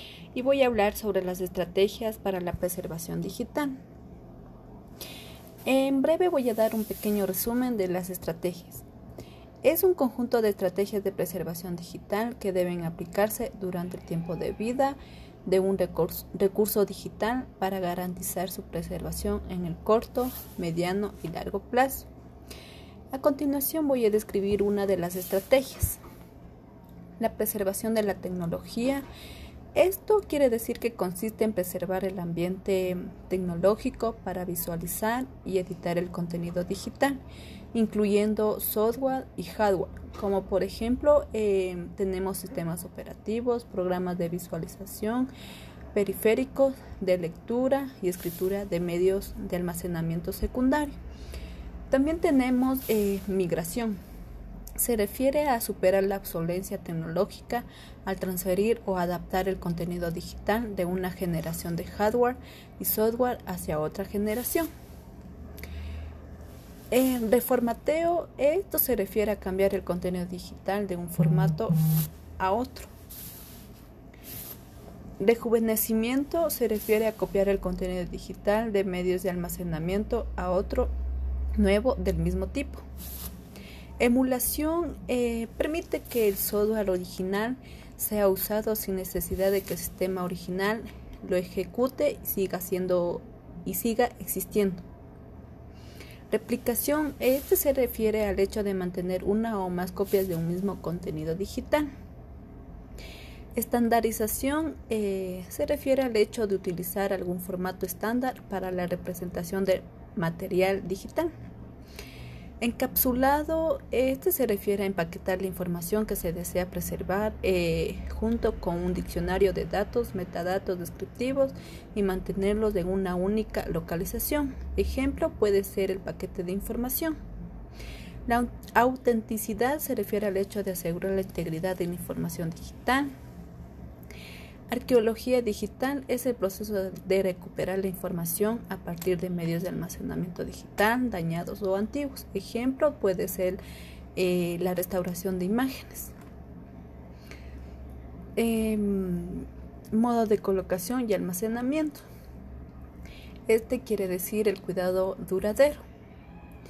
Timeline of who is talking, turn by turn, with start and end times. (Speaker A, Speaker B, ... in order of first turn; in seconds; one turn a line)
Speaker A: 0.3-3.8
Speaker A: 5.7-8.8
Speaker A: 9.6-22.1
Speaker A: 23.1-26.0
Speaker A: 27.2-29.1
Speaker A: 29.8-37.2
Speaker A: 37.7-45.3
Speaker A: 45.9-50.9
Speaker A: 51.9-54.0
Speaker A: 54.8-64.7
Speaker A: 66.9-71.8
Speaker A: 72.4-72.9
Speaker A: 75.2-80.9
Speaker A: 81.6-82.8
Speaker A: 84.0-94.8
Speaker A: 96.3-101.9
Speaker A: 103.5-111.3
Speaker A: 112.6-127.2
Speaker A: 128.3-133.1
Speaker A: 134.7-143.6
Speaker A: 144.2-146.1
Speaker A: 148.4-152.0
Speaker A: 153.5-155.8